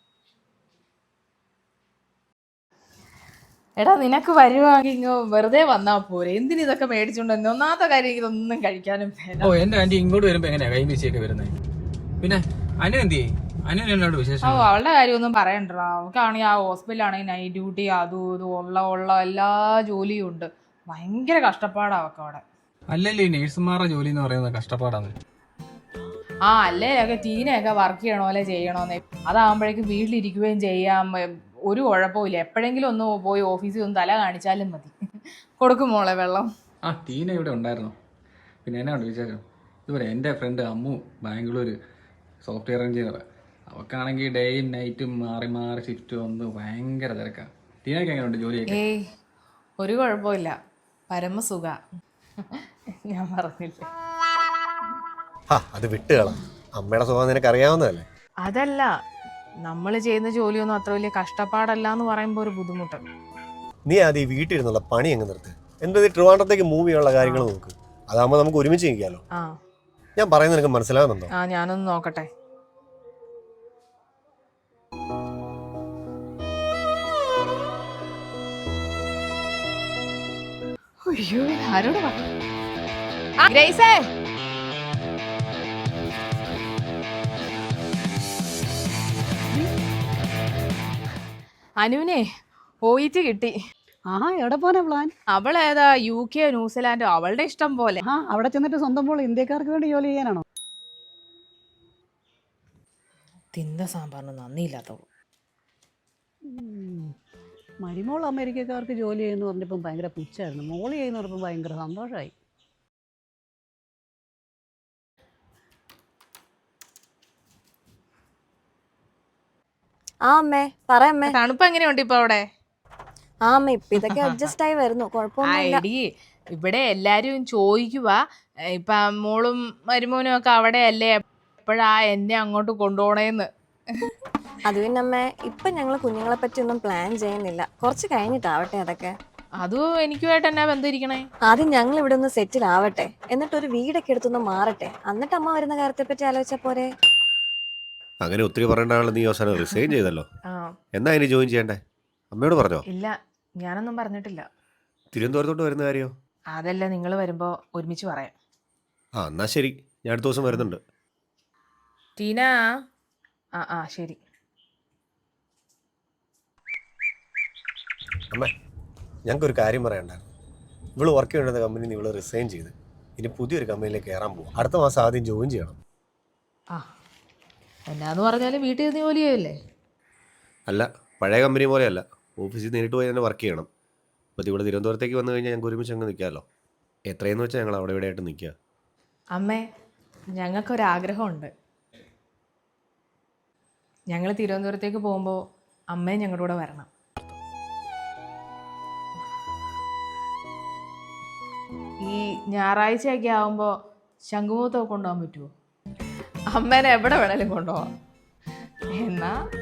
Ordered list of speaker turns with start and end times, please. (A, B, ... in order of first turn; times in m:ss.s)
0:03.8-0:09.5 A
0:09.4-0:11.5 B
0:12.2-0:14.7 B
0:14.4-0:22.4 A
0:22.9-0:25.1 B
0:26.5-0:34.9 A
0:35.6-0:36.5 A
0:36.8-0:38.0 B
0:38.6-0:41.8 B
0:42.4-0:48.8 B
0:48.7-0:49.0 A
0:49.8-0:50.6 A
0:51.1-0:51.8 A
0:52.4-0:53.9 A
0:55.5-0:58.1 C
0:58.4-0:58.9 A
0:59.6-1:03.0 A
1:03.9-1:09.2 C
1:07.2-1:07.5 A
1:10.2-1:11.3 C
1:11.4-1:12.3 A
1:21.0-1:22.2 A
1:23.4-1:24.1 A
1:31.8-1:32.2 A
1:32.8-1:33.6 A
1:34.1-1:35.1 D
1:35.3-1:38.0 A
1:38.1-1:40.4 D
1:43.5-1:45.0 A
1:46.5-1:47.1 D
1:47.8-1:52.3 D
2:00.2-2:01.3 E
2:01.2-2:02.4 A
2:03.4-2:05.8 E
2:04.0-2:04.4 A
2:05.4-2:06.0 A
2:06.5-2:08.2 A
2:08.8-2:13.5 A
2:14.7-2:19.2 E
2:19.6-2:21.2 A
2:21.5-2:26.9 E
2:28.2-2:30.3 C
2:30.9-2:31.8 C
2:32.3-2:32.8 C
2:32.9-2:34.5 A
2:35.1-2:36.1 C
2:36.5-2:38.4 A
2:39.2-2:40.8 C
2:42.2-2:42.6 A
2:43.6-2:44.2 A
2:49.3-2:50.2 C
2:51.0-2:55.8 C
2:57.9-2:59.6 A
3:00.7-3:03.7 C
3:04.4-3:06.4 C
3:07.1-3:08.6 C
3:09.3-3:09.6 A
3:10.4-3:11.5 A
3:14.1-3:15.4 A
3:15.9-3:16.9 A
3:22.0-3:23.7 A
3:24.3-3:25.5 A
3:26.5-3:27.9 A
3:28.9-3:29.4 A